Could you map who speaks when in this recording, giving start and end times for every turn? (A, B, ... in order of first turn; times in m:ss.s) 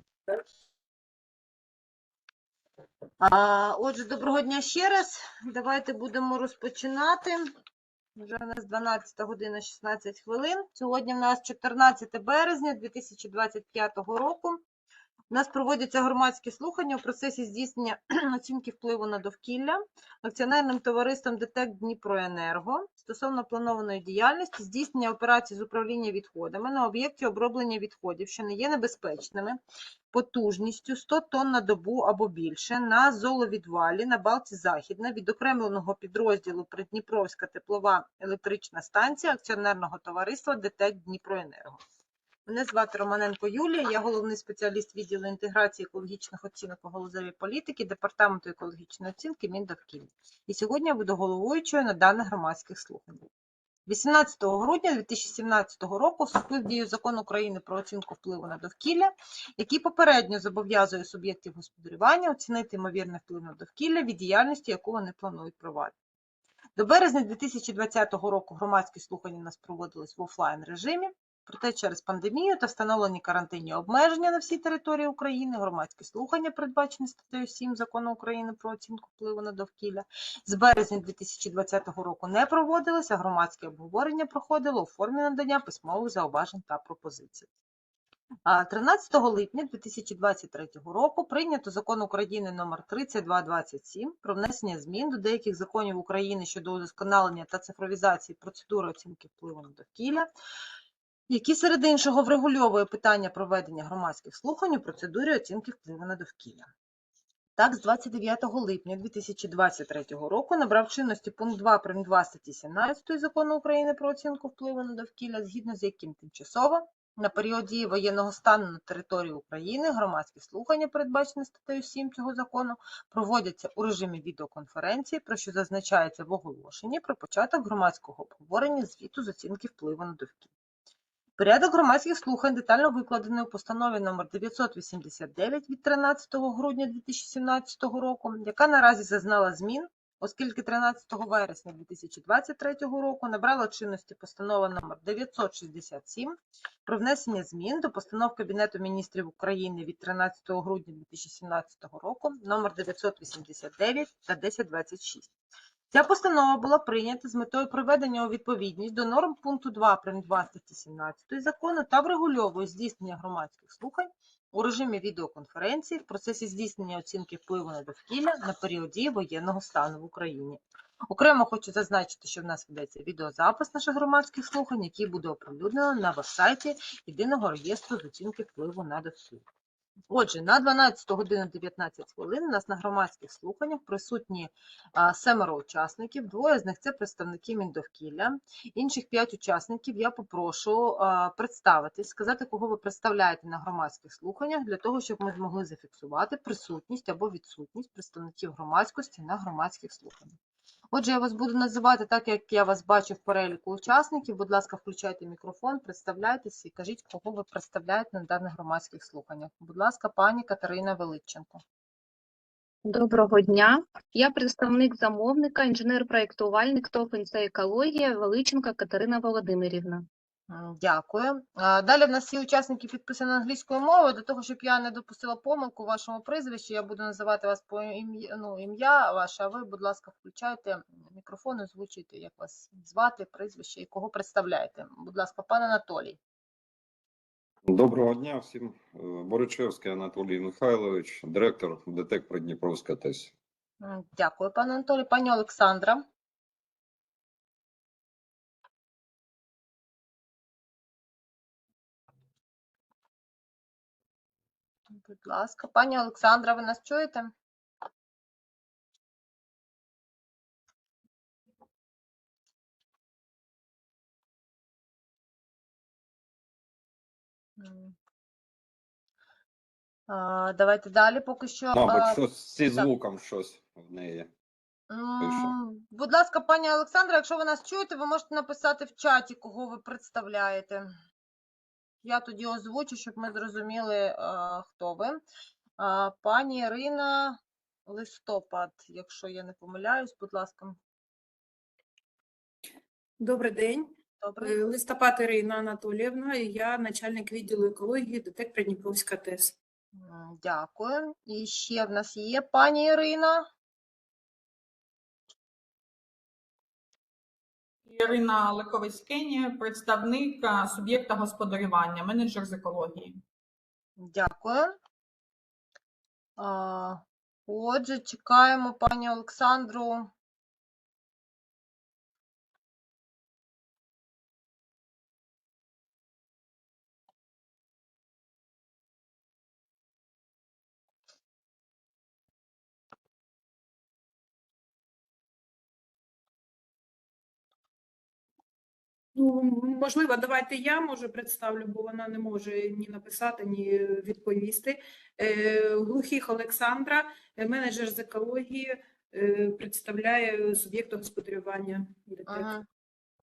0:03.2-0:07.5 A
0:08.2-0:14.6 A
0:15.3-0:29.6 A
0:30.1-0:41.8 A
0:42.4-0:53.2 A
0:53.9-1:05.9 A
1:06.8-1:27.5 A
1:28.4-1:40.3 A
1:41.3-1:46.7 A
1:47.6-2:10.5 A
2:11.4-2:35.3 A
2:35.9-2:59.4 A
3:00.1-3:20.4 A
3:20.9-3:31.6 A
3:32.9-3:40.0 B
3:40.5-3:56.2 A
3:57.6-4:03.3 C
4:03.8-4:06.0 A
4:14.9-4:17.3 A
4:27.6-4:28.0 A
4:30.1-4:32.2 A
4:31.7-4:34.3 C
4:34.9-4:40.9 A
4:35.2-4:35.5 C
4:42.0-4:45.2 A
4:45.8-4:50.8 A
4:53.2-4:53.9 D
4:54.2-4:54.6 A
4:54.4-4:59.5 D
5:00.0-5:03.5 A
5:07.8-5:13.2 E
5:14.0-5:14.8 A
5:16.4-5:20.1 A
5:39.1-5:52.5 D
5:52.3-5:52.6 A